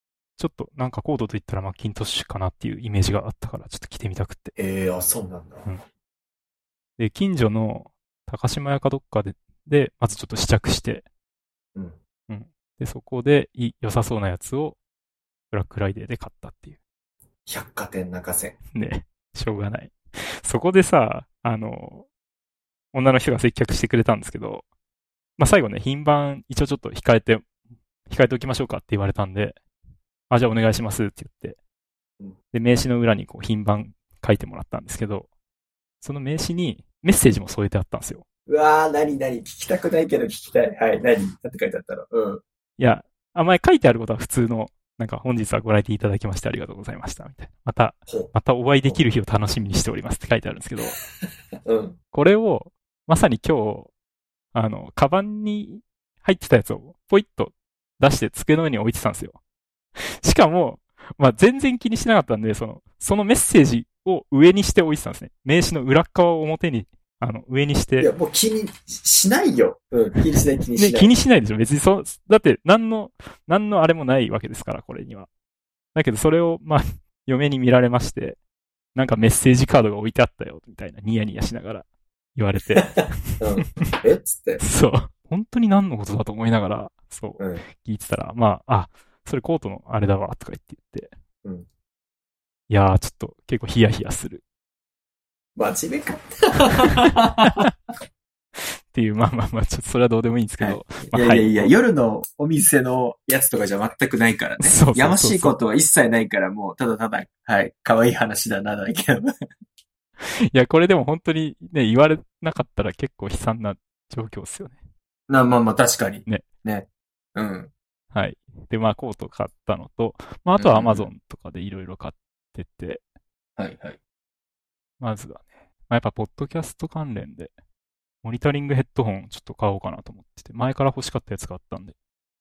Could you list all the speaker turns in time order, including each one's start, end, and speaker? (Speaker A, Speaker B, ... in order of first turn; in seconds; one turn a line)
Speaker A: 0.4-4.5
Speaker B: 4.6-5.7
Speaker A: 7.0-11.1
Speaker A: 12.3-14.8
Speaker A: 15.5-16.8
Speaker B: 17.5-18.6
Speaker A: 18.7-22.1
Speaker A: 22.9-24.7
Speaker A: 25.4-27.5
Speaker A: 28.1-29.6
Speaker A: 30.3-31.6
Speaker A: 32.5-35.3
Speaker A: 36.0-38.3
Speaker B: 38.5-42.4
Speaker A: 42.8-51.0
Speaker B: 48.1-48.3
Speaker B: 51.6-52.0
Speaker A: 52.1-53.9
Speaker A: 54.5-59.4
Speaker A: 60.0-68.1
Speaker B: 68.0-71.1
Speaker A: 70.8-75.3
Speaker A: 76.0-78.4
Speaker A: 79.0-83.9
Speaker B: 83.4-84.6
Speaker A: 84.6-91.1
Speaker B: 87.4-87.7
Speaker A: 92.7-94.4
Speaker B: 95.6-97.6
Speaker A: 98.9-101.7
Speaker B: 100.6-109.3
Speaker A: 104.6-105.5
Speaker A: 110.5-114.8
Speaker B: 115.3-117.7
Speaker A: 118.1-123.0
Speaker B: 120.6-121.1
Speaker B: 123.6-124.0
Speaker A: 125.0-127.5
Speaker A: 128.2-132.0